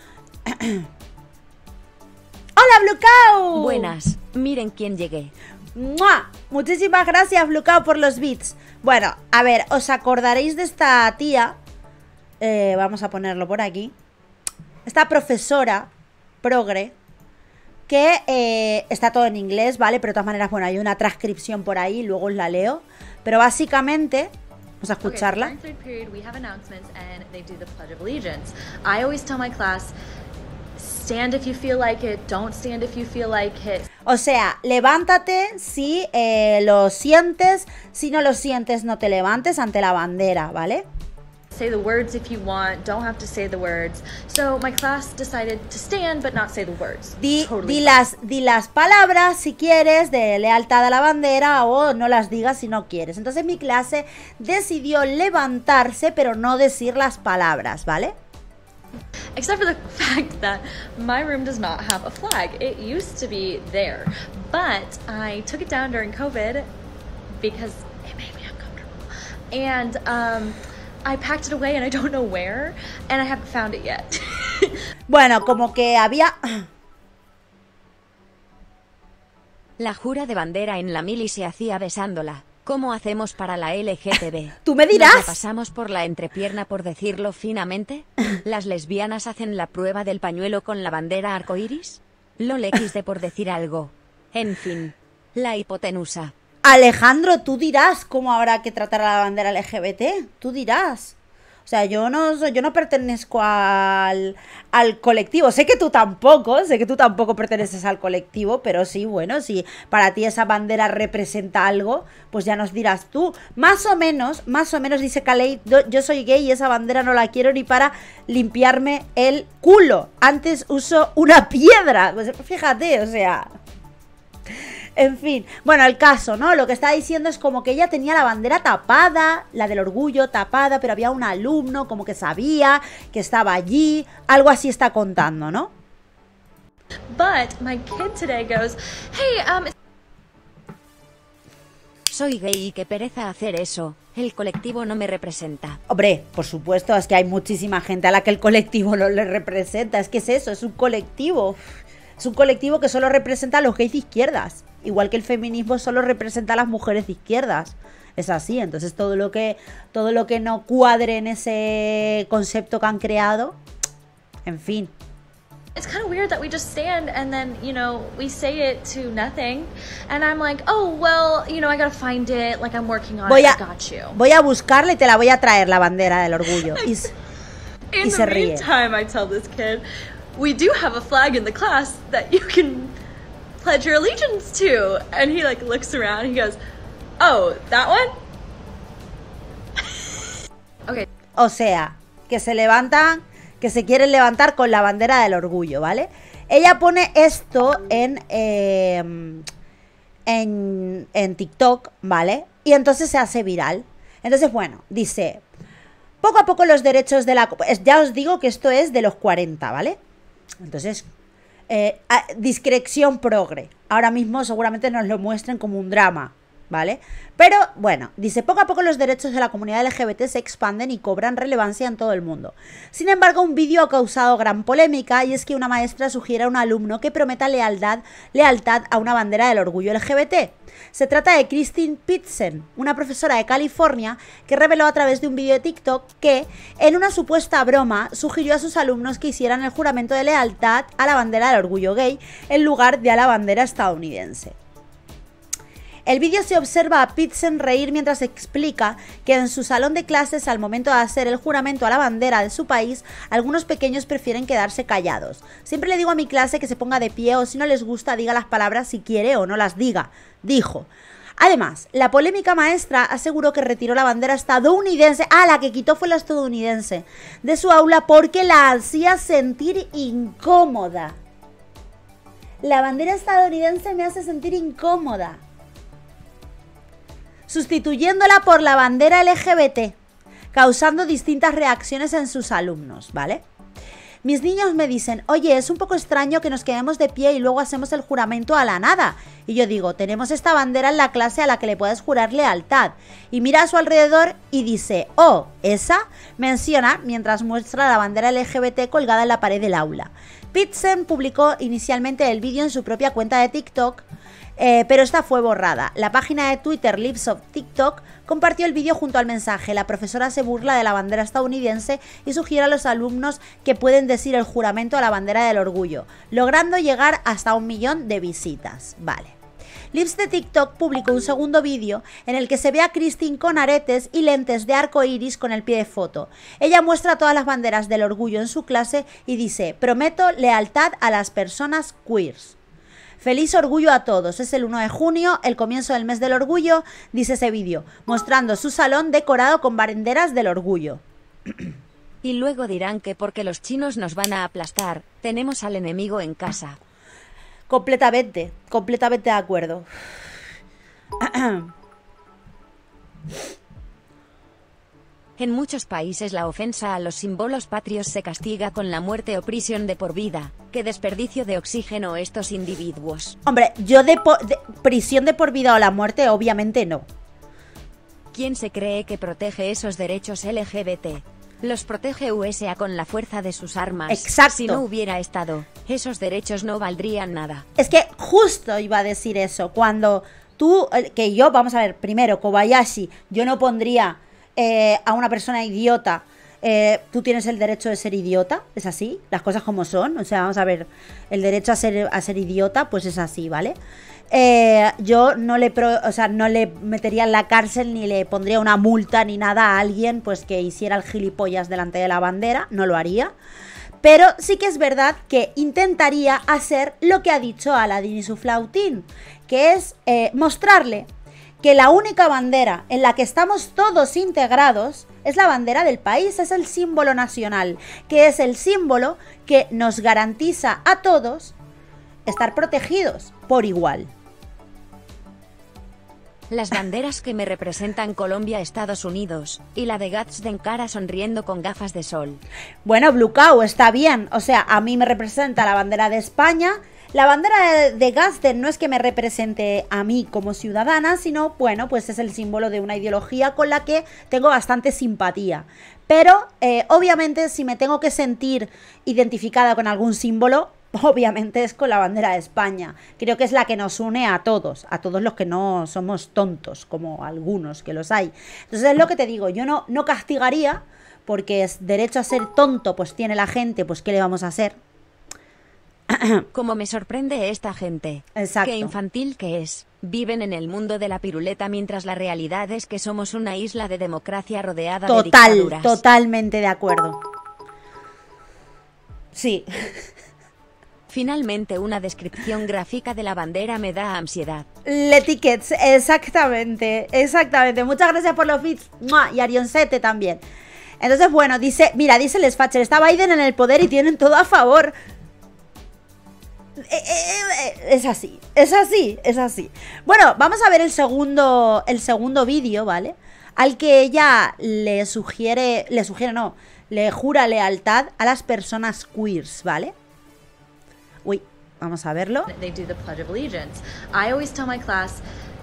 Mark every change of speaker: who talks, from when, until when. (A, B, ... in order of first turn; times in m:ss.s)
0:00.5-0:00.9 A
0:02.6-0:03.9 A
0:03.5-0:05.3 B
0:05.8-0:11.6 A
0:12.4-0:14.0 A
0:14.9-0:15.9 A
0:16.4-0:17.0 A
0:17.9-0:25.5 A
0:25.0-0:29.9 C
0:30.8-0:33.9 C
0:34.0-0:40.9 A
0:41.5-0:48.0 C
0:47.2-0:58.2 A
0:59.4-1:06.7 C
1:07.4-1:09.0 C
1:09.5-1:14.8 C
1:15.1-1:16.7 A
1:19.8-1:36.3 B
1:24.6-1:25.4 A
1:36.6-1:41.2 A
1:41.7-2:03.5 A
2:05.0-2:15.7 A
2:17.1-2:19.7 C
2:22.1-2:25.8 B
2:25.9-2:31.6 A
2:32.2-2:43.6 A
2:44.4-2:44.9 A
2:45.8-2:54.2 C
2:53.3-2:53.6 A
2:54.1-2:57.1 A
2:57.9-2:59.8 C
2:58.0-2:58.7 A
3:00.4-3:03.0 C
3:03.6-3:06.6 C
3:07.2-3:08.2 C
3:11.4-3:19.5 A
3:20.3-3:25.4 A
3:26.2-3:30.0 A
3:30.6-3:31.1 A
3:31.7-4:04.6 A
4:06.1-4:31.2 A
4:32.6-4:35.4 A
4:37.5-4:40.0 A
4:40.5-4:43.4 A
4:44.2-5:04.0 A
5:04.6-5:19.4 A
5:19.9-5:32.6 A
5:33.2-5:41.0 A
5:42.2-5:46.8 B
5:47.7-5:49.9 A
5:51.2-5:51.7 A
5:55.4-6:03.4 B
6:03.5-6:07.1 A
6:08.3-6:17.6 B
6:14.1-6:14.8 A
6:17.8-6:33.8 A
6:34.3-6:43.3 A
6:44.0-6:51.1 A
6:51.6-7:01.6 A
7:02.3-7:04.1 A
7:06.5-7:12.4 B
7:12.8-7:44.8 A
7:46.1-7:46.5 A
7:46.5-7:56.0 B
7:48.4-7:48.9 A
7:55.1-7:57.2 A
7:59.3-8:00.1 A
8:01.1-8:04.7 B
8:04.8-8:10.4 A
8:11.0-8:14.9 A
8:16.8-8:29.9 A
8:31.2-8:32.5 A
8:32.5-8:35.2 C